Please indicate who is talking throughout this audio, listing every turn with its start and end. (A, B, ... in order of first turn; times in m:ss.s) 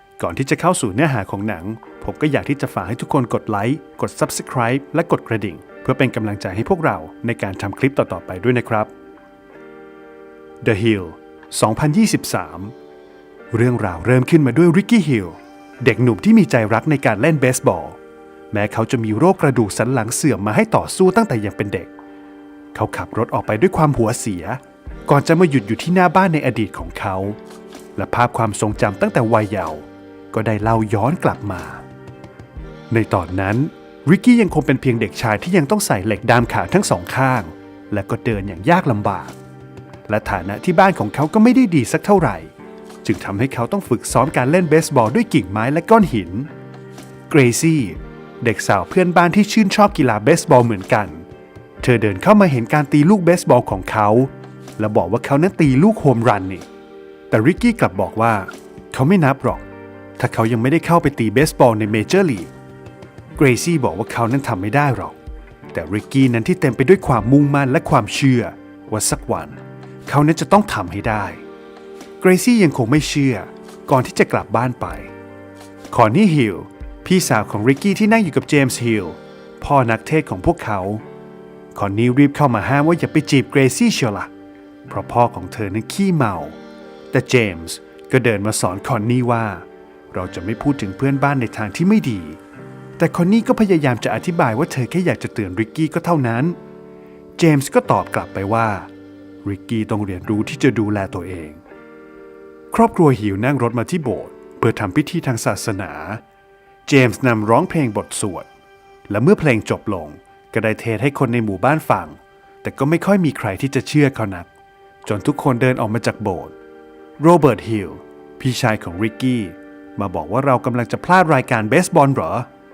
0:00.2-0:08.9 A
0:10.6-0:12.7 A
0:13.5-0:18.0 A
0:18.5-0:21.9 A
0:22.7-0:27.4 A
0:28.0-0:31.8 A
0:32.9-0:39.4 A
0:40.1-0:42.5 A
0:43.0-0:46.5 A
0:47.3-0:51.3 A
0:51.8-0:56.6 A
0:57.3-0:59.6 A
1:00.2-1:02.5 A
1:03.4-1:05.2 A
1:05.7-1:11.4 A
1:12.2-1:15.1 A
1:15.9-1:21.0 A
1:21.8-1:24.3 A
1:24.9-1:26.6 A
1:27.1-1:32.4 A
1:33.0-1:36.6 A
1:37.4-1:38.9 A
1:39.4-1:41.6 A
1:42.7-1:46.2 A
1:46.9-1:48.5 A
1:49.1-1:54.5 A
1:55.0-1:56.5 A
1:57.2-2:02.5 A